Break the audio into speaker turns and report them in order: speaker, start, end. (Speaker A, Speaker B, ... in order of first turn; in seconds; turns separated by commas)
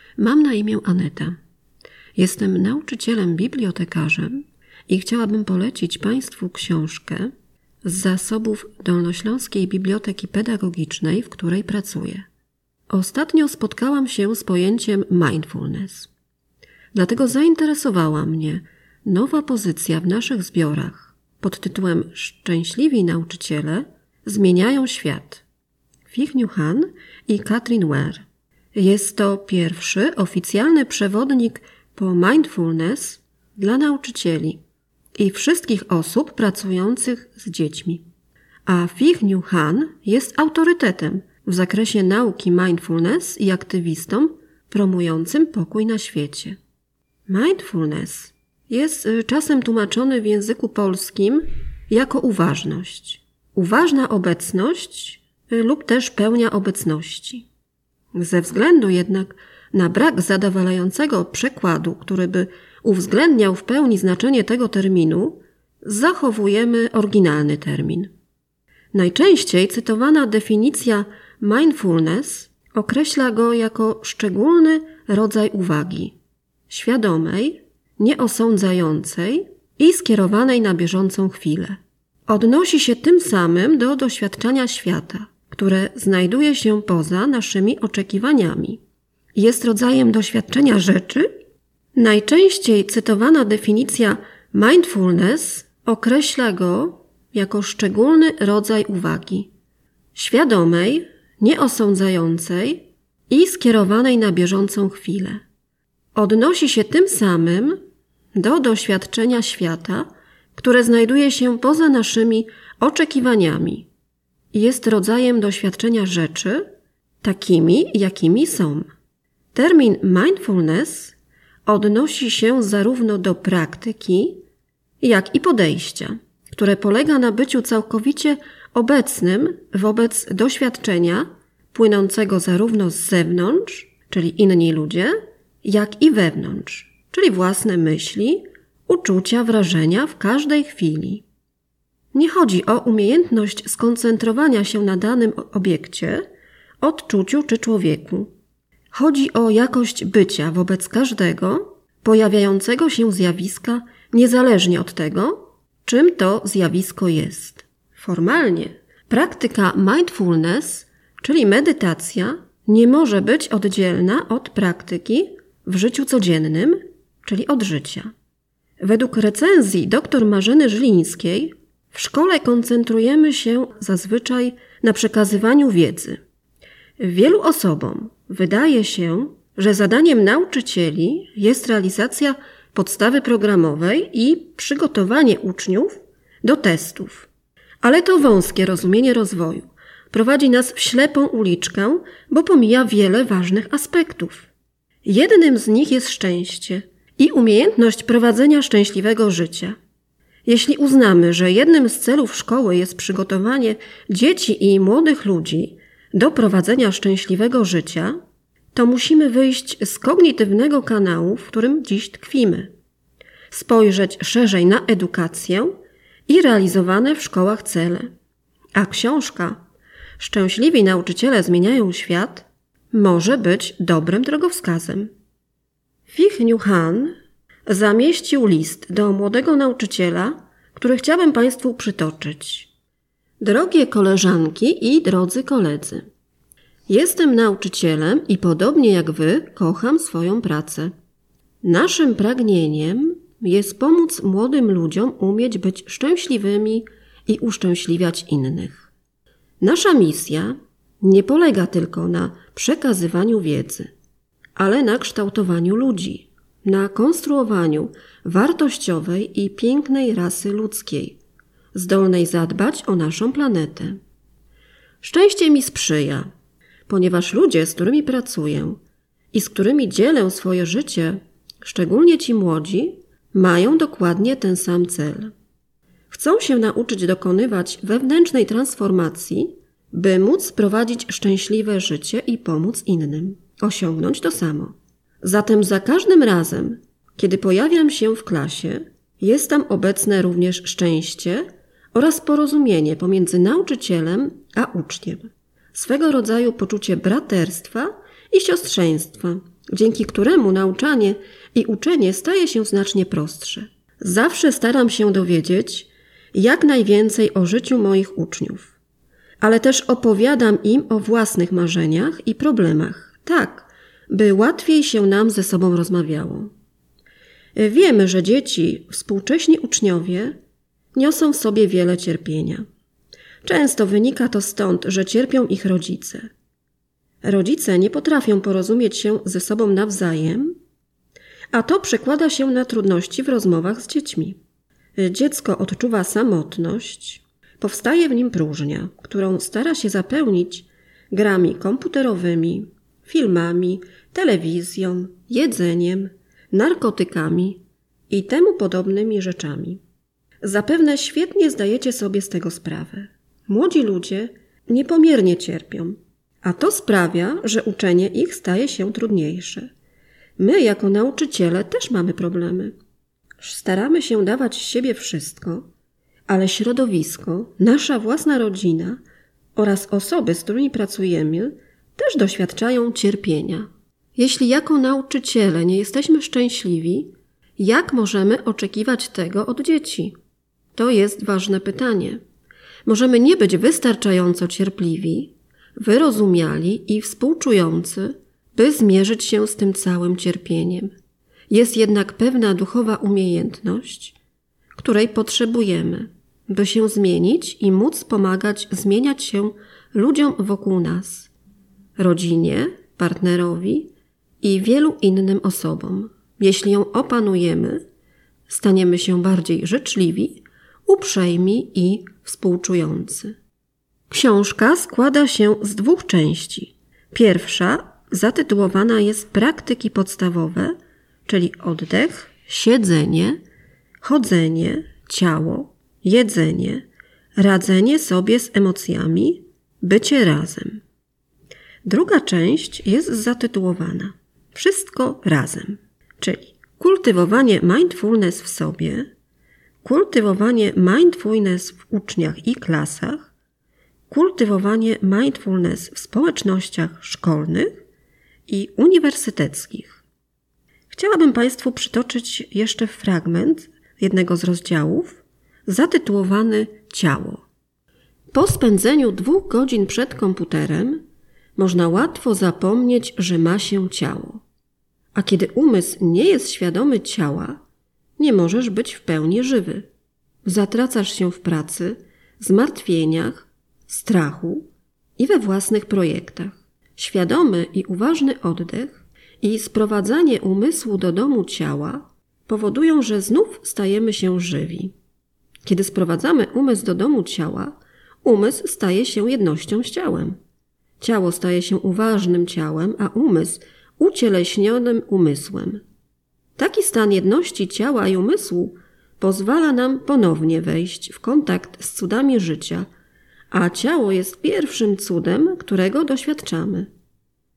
Speaker A: 0.2-1.4, Speaker A: 2.2-7.3, Speaker A: 7.8-12.3, Speaker A: 12.9-16.1, Speaker A: 16.9-25.4, Speaker A: 26.1-34.6, Speaker A: 35.1-38.0, Speaker A: 38.7-46.6, Speaker A: 47.3-57.5, Speaker A: 58.1-68.1, Speaker A: 68.9-76.2, Speaker A: 76.7-88.8, Speaker A: 89.3-91.3, Speaker A: 92.0-99.5, Speaker A: 100.1-105.4, Speaker A: 106.1-107.8, Speaker A: 108.3-113.9, Speaker A: 114.5-116.7, Speaker A: 117.2-118.9, Speaker A: 119.5-124.4, Speaker A: 125.0-141.2, Speaker A: 142.1-146.2, Speaker A: 146.8-148.3, Speaker A: 148.9-168.1, Speaker A: 168.8-176.2, Speaker A: 177.0-187.3, Speaker A: 187.8-194.5, Speaker A: 195.0-199.8, Speaker A: 200.4-208.2, Speaker A: 208.7-212.7, Speaker A: 213.5-215.7, Speaker A: 216.3-218.1, Speaker A: 218.7-219.6, Speaker A: 220.2-225.1, Speaker A: 226.1-227.1, Speaker A: 227.7-232.7, Speaker A: 233.4-236.1, Speaker A: 236.9-240.9, Speaker A: 241.6-248.9, Speaker A: 249.6-253.9, Speaker A: 254.6-261.2, Speaker A: 261.7-264.0, Speaker A: 265.0-266.3, Speaker A: 266.9-268.8, Speaker A: 269.3-275.3, Speaker A: 276.1-308.8, Speaker A: 309.4-316.5, Speaker A: 317.6-320.4, Speaker A: 320.9-322.6, Speaker A: 323.4-326.3, Speaker A: 327.2-330.6, Speaker A: 331.5-334.4, Speaker A: 335.0-349.8, Speaker A: 350.4-359.7, Speaker A: 360.4-362.8, Speaker A: 363.4-365.7, Speaker A: 366.3-369.0, Speaker A: 369.6-380.1, Speaker A: 380.8-382.2, Speaker A: 382.8-390.9, Speaker A: 391.5-394.2, Speaker A: 394.8-401.3, Speaker A: 402.0-407.8, Speaker A: 408.5-413.3, Speaker A: 414.1-420.8, Speaker A: 421.2-423.4, Speaker A: 424.0-430.8, Speaker A: 431.8-439.1, Speaker A: 439.8-443.3, Speaker A: 444.1-447.8, Speaker A: 448.5-450.0, Speaker A: 450.9-457.4, Speaker A: 458.3-461.0, Speaker A: 461.6-464.4, Speaker A: 465.1-467.6, Speaker A: 468.2-469.9, Speaker A: 470.4-484.9, Speaker A: 485.6-490.4, Speaker A: 491.0-495.8, Speaker A: 496.6-502.9, Speaker A: 503.5-506.9